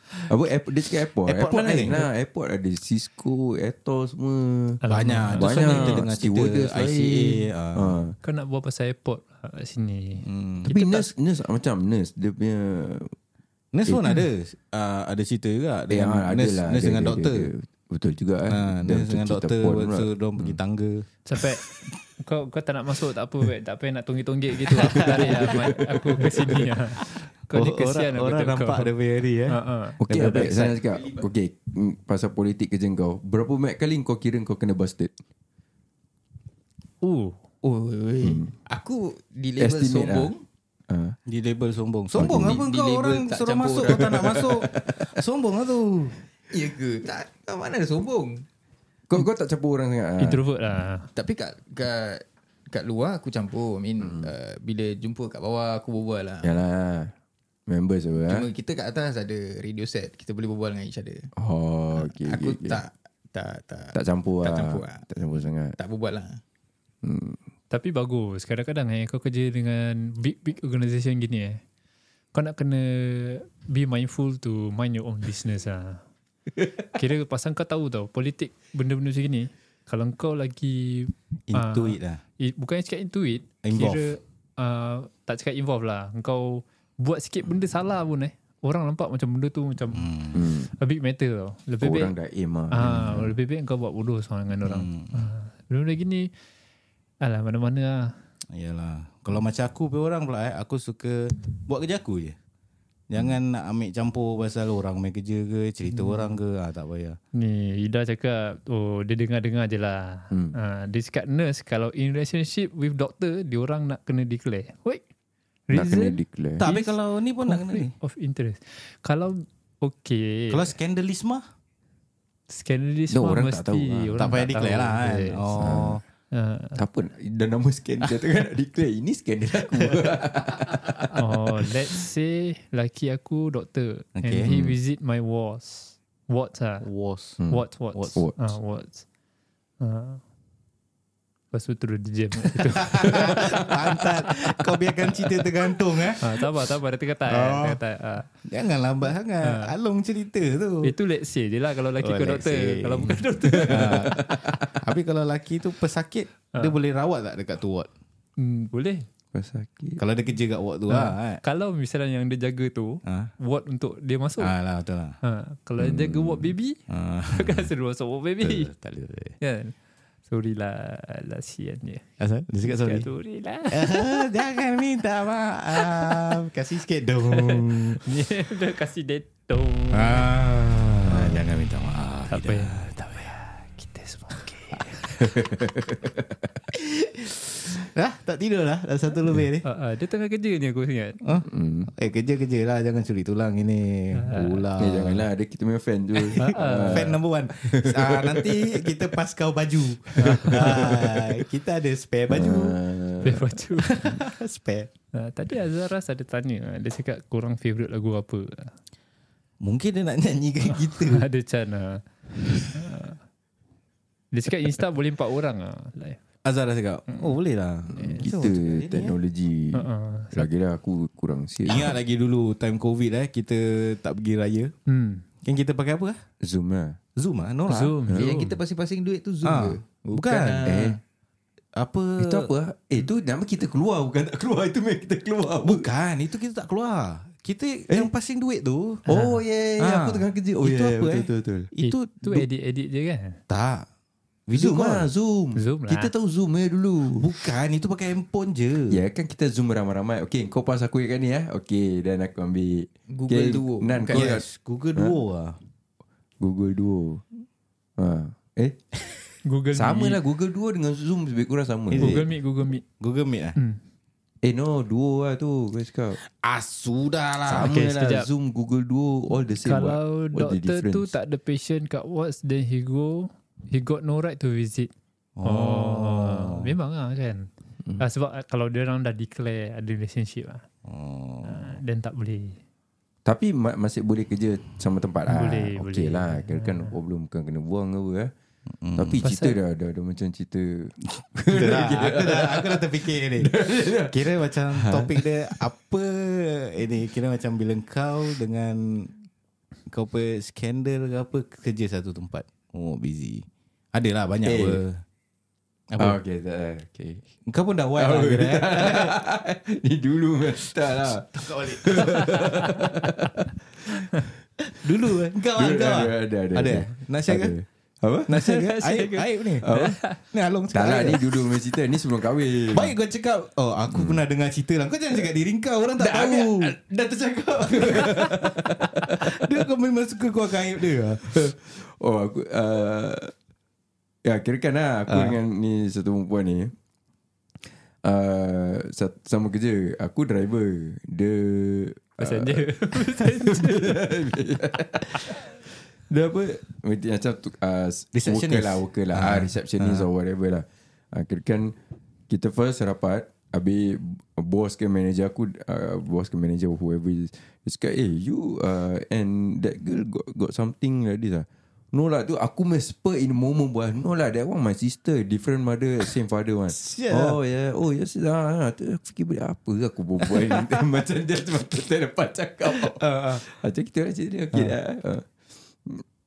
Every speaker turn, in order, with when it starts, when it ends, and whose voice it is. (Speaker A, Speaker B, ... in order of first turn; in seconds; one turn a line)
Speaker A: 0.2-4.8
Speaker B: 1.2-2.1
Speaker C: 4.8-6.0
Speaker B: 4.9-7.9
Speaker A: 5.3-8.2
Speaker C: 8.2-11.1
Speaker B: 10.2-10.7
Speaker A: 10.7-13.1
Speaker B: 13.7-17.5
Speaker A: 13.8-14.2
Speaker A: 15.9-20.6
Speaker B: 18.5-21.0
Speaker C: 21.3-28.9
Speaker B: 24.7-30.8
Speaker A: 24.9-26.6
Speaker C: 29.5-30.6
Speaker A: 30.0-35.1
Speaker C: 37.0-37.4
Speaker D: 37.6-40.4
Speaker A: 38.2-38.5
Speaker A: 39.6-40.3
Speaker A: 40.9-41.1
Speaker B: 41.3-46.2
Speaker A: 42.1-42.6
Speaker D: 42.3-44.4
Speaker A: 43.9-45.1
Speaker D: 46.5-48.4
Speaker A: 49.1-50.4
Speaker C: 50.2-51.1
Speaker D: 51.1-56.5
Speaker A: 54.0-54.3
Speaker A: 56.4-57.1
Speaker A: 57.7-58.5
Speaker D: 58.3-61.3
Speaker A: 61.4-62.8
Speaker D: 61.9-65.0
Speaker A: 63.9-65.8
Speaker D: 65.8-66.4
Speaker A: 67.0-67.4
Speaker C: 67.7-71.6
Speaker C: 72.3-76.0
Speaker C: 76.8-92.1
Speaker B: 81.5-82.2
Speaker B: 83.6-84.1
Speaker B: 89.9-90.4
Speaker A: 90.3-90.7
Speaker A: 91.8-93.3
Speaker C: 92.7-96.3
Speaker B: 94.6-95.3
Speaker C: 97.2-98.1
Speaker B: 98.5-102.3
Speaker B: 103.1-107.2
Speaker C: 105.9-106.4
Speaker C: 107.3-115.0
Speaker C: 115.7-116.9
Speaker A: 115.7-116.6
Speaker B: 116.6-117.9
Speaker C: 117.5-120.7
Speaker B: 120.5-121.4
Speaker C: 122.5-125.7
Speaker A: 123.1-124.3
Speaker B: 124.2-126.0
Speaker A: 125.6-126.0
Speaker C: 126.3-126.8
Speaker A: 126.8-131.2
Speaker C: 131.1-136.8
Speaker B: 134.2-134.5
Speaker A: 134.4-134.8
Speaker B: 136.8-137.4
Speaker C: 137.5-139.0
Speaker B: 137.9-138.2
Speaker C: 139.8-140.2
Speaker C: 141.5-143.6
Speaker B: 142.7-146.4
Speaker A: 143.1-143.5
Speaker C: 146.2-148.3
Speaker B: 147.3-147.8
Speaker B: 148.4-150.9
Speaker C: 149.4-149.7
Speaker C: 150.8-154.2
Speaker B: 152.0-154.2
Speaker A: 153.4-154.8
Speaker B: 154.8-157.9
Speaker C: 158.4-159.1
Speaker A: 159.3-160.0
Speaker B: 160.0-161.4
Speaker C: 160.9-164.5
Speaker B: 163.1-163.3
Speaker B: 164.4-165.2
Speaker C: 165.2-166.8
Speaker A: 165.8-166.5
Speaker B: 166.9-167.7
Speaker C: 167.3-168.7
Speaker B: 168.4-169.4
Speaker C: 169.4-169.7
Speaker C: 170.3-172.1
Speaker B: 172.2-173.1
Speaker C: 172.7-174.4
Speaker B: 173.7-178.0
Speaker C: 175.8-176.3
Speaker C: 177.3-180.3
Speaker B: 179.9-183.3
Speaker C: 181.0-181.5
Speaker C: 182.3-185.4
Speaker A: 185.2-186.5
Speaker B: 186.7-189.6
Speaker C: 189.6-191.2
Speaker B: 191.2-195.2
Speaker A: 191.5-191.9
Speaker C: 194.2-194.6
Speaker A: 194.8-199.1
Speaker B: 196.3-202.8
Speaker C: 196.3-197.2
Speaker A: 200.2-201.2
Speaker C: 200.2-200.9
Speaker A: 202.3-203.5
Speaker C: 203.2-204.2
Speaker B: 203.8-204.9
Speaker C: 205.1-208.7
Speaker B: 209.6-211.2
Speaker C: 210.7-213.2
Speaker C: 214.3-216.2
Speaker B: 216.4-219.2
Speaker C: 217.1-217.3
Speaker C: 217.9-218.3
Speaker A: 218.0-222.0
Speaker C: 219.7-220.5
Speaker B: 221.6-224.7
Speaker C: 224.9-225.2
Speaker B: 225.4-226.2
Speaker A: 226.4-227.0
Speaker B: 227.2-227.9
Speaker C: 227.7-228.5
Speaker A: 228.1-228.3
Speaker D: 228.1-230.8
Speaker B: 229.4-231.0
Speaker A: 230.7-231.0
Speaker B: 231.8-232.5
Speaker A: 232.2-235.9
Speaker B: 235.6-239.1
Speaker A: 239.1-241.7
Speaker C: 239.1-239.3
Speaker B: 239.8-242.5
Speaker C: 241.8-243.4
Speaker B: 243.5-243.8
Speaker B: 244.5-245.1
Speaker A: 244.5-247.2
Speaker C: 245.6-246.1
Speaker B: 247.2-249.0
Speaker A: 248.9-254.4
Speaker D: 253.1-254.4
Speaker B: 254.1-255.6
Speaker A: 256.4-257.2
Speaker A: 258.0-258.8
Speaker C: 259.4-260.2
Speaker A: 259.7-262.2
Speaker B: 261.9-262.3
Speaker C: 261.9-262.8
Speaker B: 263.0-263.6
Speaker A: 264.4-266.2
Speaker B: 266.2-267.7
Speaker A: 267.4-271.1
Speaker C: 267.6-268.3
Speaker C: 269.6-274.9
Speaker B: 275.4-276.7
Speaker C: 275.4-280.6
Speaker B: 280.8-281.8
Speaker C: 281.4-282.6
Speaker A: 283.2-288.3
Speaker C: 285.3-286.9
Speaker B: 288.8-289.2
Speaker A: 288.9-295.6
Speaker C: 289.2-289.6
Speaker B: 291.5-299.1
Speaker B: 299.9-305.0
Speaker A: 304.4-304.8
Speaker B: 305.9-306.2
Speaker A: 306.0-307.2
Speaker B: 307.5-309.2
Speaker A: 307.9-313.5
Speaker B: 311.1-312.6
Speaker B: 314.7-317.6
Speaker A: 315.6-318.5
Speaker B: 318.3-319.7
Speaker C: 318.4-320.2
Speaker A: 319.6-320.0
Speaker B: 320.3-321.4
Speaker A: 320.7-322.9
Speaker B: 322.7-326.7
Speaker A: 323.9-324.2
Speaker A: 326.0-329.6
Speaker B: 327.7-331.5
Speaker A: 331.3-333.3
Speaker A: 334.2-336.7
Speaker B: 335.1-335.3
Speaker A: 338.0-351.8
Speaker C: 342.2-344.1
Speaker B: 348.1-350.1
Speaker A: 352.3-375.3
Speaker B: 366.7-367.4
Speaker B: 370.2-370.8
Speaker B: 372.7-373.4